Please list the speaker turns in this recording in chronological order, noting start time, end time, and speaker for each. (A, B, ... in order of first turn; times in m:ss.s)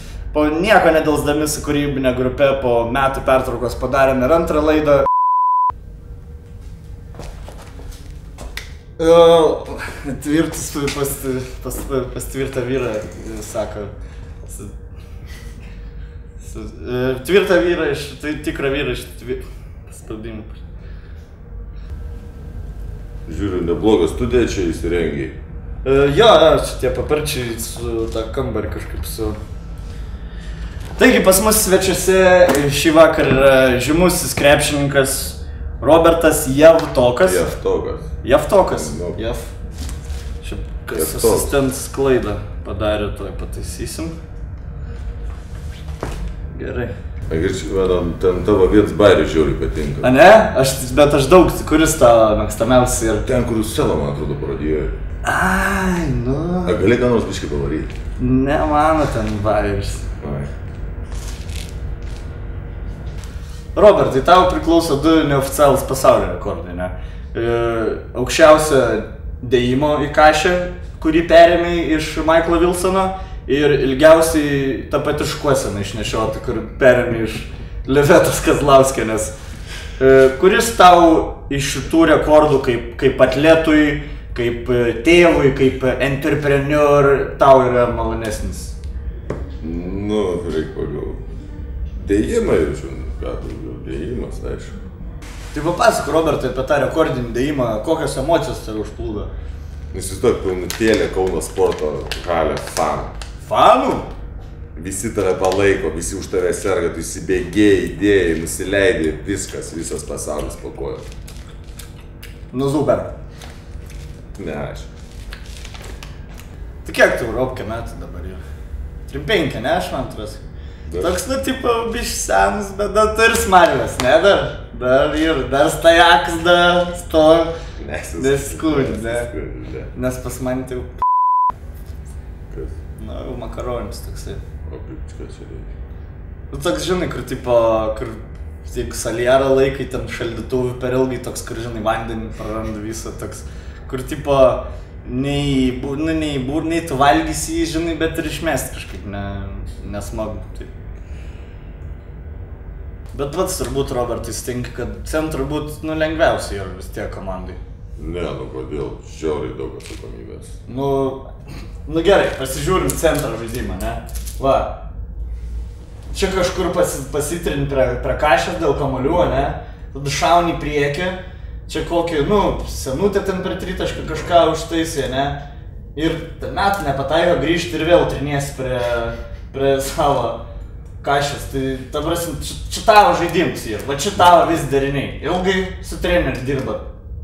0:00.3-0:05.1 A
0:09.0-0:13.9 A
0:14.4-0:14.7 A
0:16.4-0:20.6 A
0:23.2-0:25.4 B
0:25.8-0:29.4 A
0:31.0-0:37.5 A
0:37.2-0:38.2 B
0:38.2-0:39.6 A
0:38.7-0:39.2 B
0:40.4-0:44.2 A
0:40.9-0:41.6 B
0:46.5-0:46.9 A
0:47.3-0:50.1 B
0:50.0-0:53.2 A
0:53.2-0:54.9 B
0:55.2-0:56.8 A
0:56.6-0:57.9 B
0:58.2-1:00.0 A
1:00.2-1:00.5 B
1:03.7-1:19.3 A
1:20.0-1:28.8 A
1:29.6-1:31.2 B
1:32.0-1:34.8 B
1:35.5-1:39.3 A
1:39.9-1:43.1 B
1:43.4-1:44.1 A
1:44.8-1:51.1 B
1:52.5-1:53.1 A
1:54.4-1:54.9 B
1:56.8-1:58.4 A
1:59.1-2:00.4 A
2:01.0-2:07.5 A
2:07.8-2:09.9 B
2:08.2-2:09.3 A
2:09.9-2:10.9 A
2:12.5-2:12.8 B
2:13.0-2:14.4 A
2:14.7-2:15.7 B
2:16.5-2:30.7 A
2:33.1-2:37.6 A
2:38.0-2:40.6 B
2:40.7-2:41.3 A
2:41.8-2:44.8 A
2:46.1-2:55.4 A
2:55.9-3:00.4 A
3:01.0-3:06.9 A